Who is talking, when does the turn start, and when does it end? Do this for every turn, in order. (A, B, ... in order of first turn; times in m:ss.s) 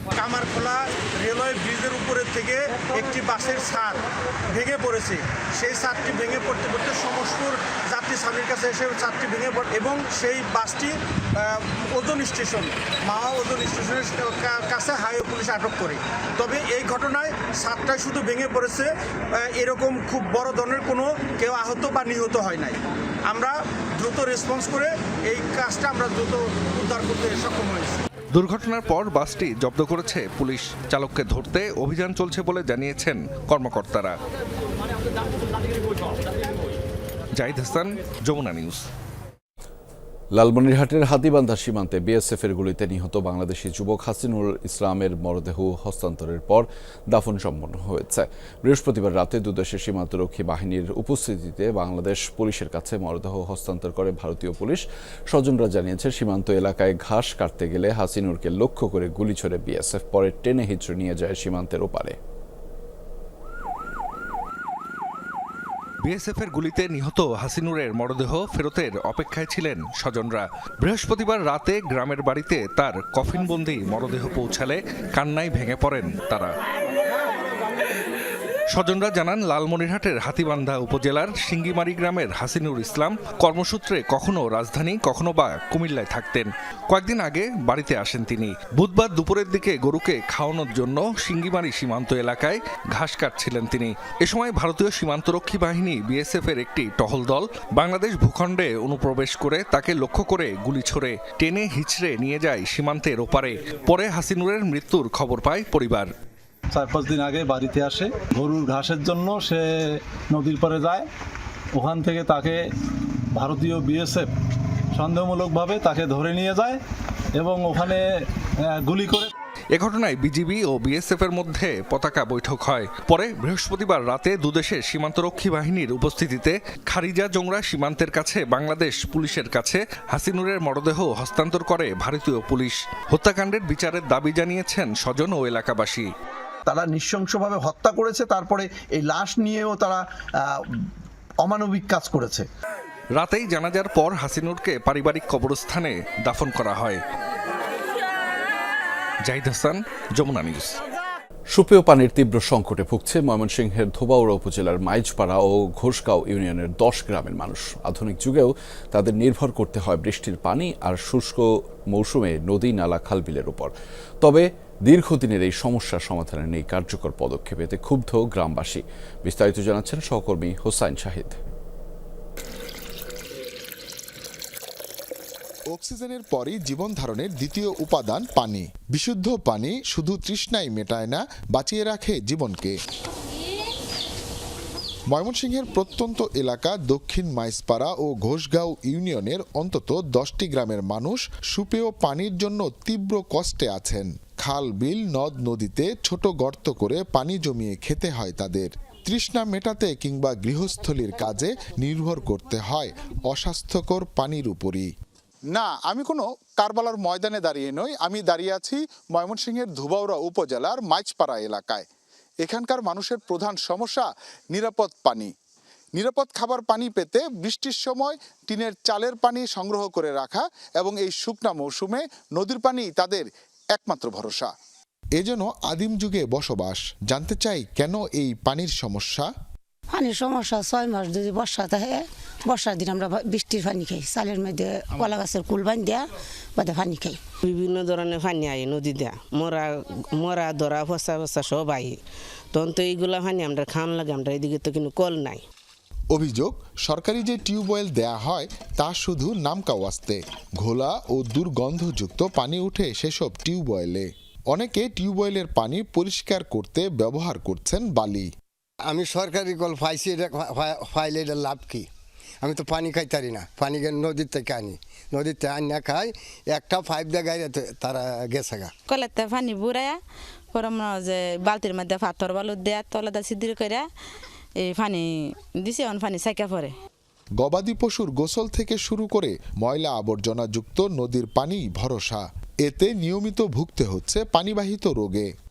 0:00.2-0:28.0 A
0:28.3-0:34.2 B
0:37.4-0:38.8 B
0:40.4-1:02.2 C
1:06.0-1:16.5 B
1:18.7-1:46.1 B
1:46.7-1:49.6 D
1:50.3-1:51.0 D
1:51.8-1:52.6 D
1:53.4-1:54.3 D
1:55.0-1:56.8 D
1:57.4-1:58.0 D
1:58.8-1:59.3 D
1:59.7-2:16.1 B
2:16.6-2:20.6 E
2:21.4-2:22.4 E
2:23.2-2:27.0 B
2:29.3-2:30.8 B
2:31.5-2:43.7 C
2:44.2-2:51.4 C
2:55.7-3:02.7 F
3:05.1-3:24.9 F
3:25.5-3:31.8 G
3:32.4-3:35.3 G
3:36.0-3:43.2 G
3:43.8-3:44.5 G
3:45.2-3:49.3 F
3:49.9-3:57.2 H
3:57.4-4:05.4 I
4:06.1-4:18.3 F
4:19.8-4:20.2 J
4:21.0-4:21.8 J
4:22.6-4:24.7 J
4:25.4-4:26.0 J
4:26.6-4:28.7 J
4:28.9-4:30.0 K
4:30.5-4:33.9 K
4:34.6-4:36.7 K
4:37.4-4:45.2 F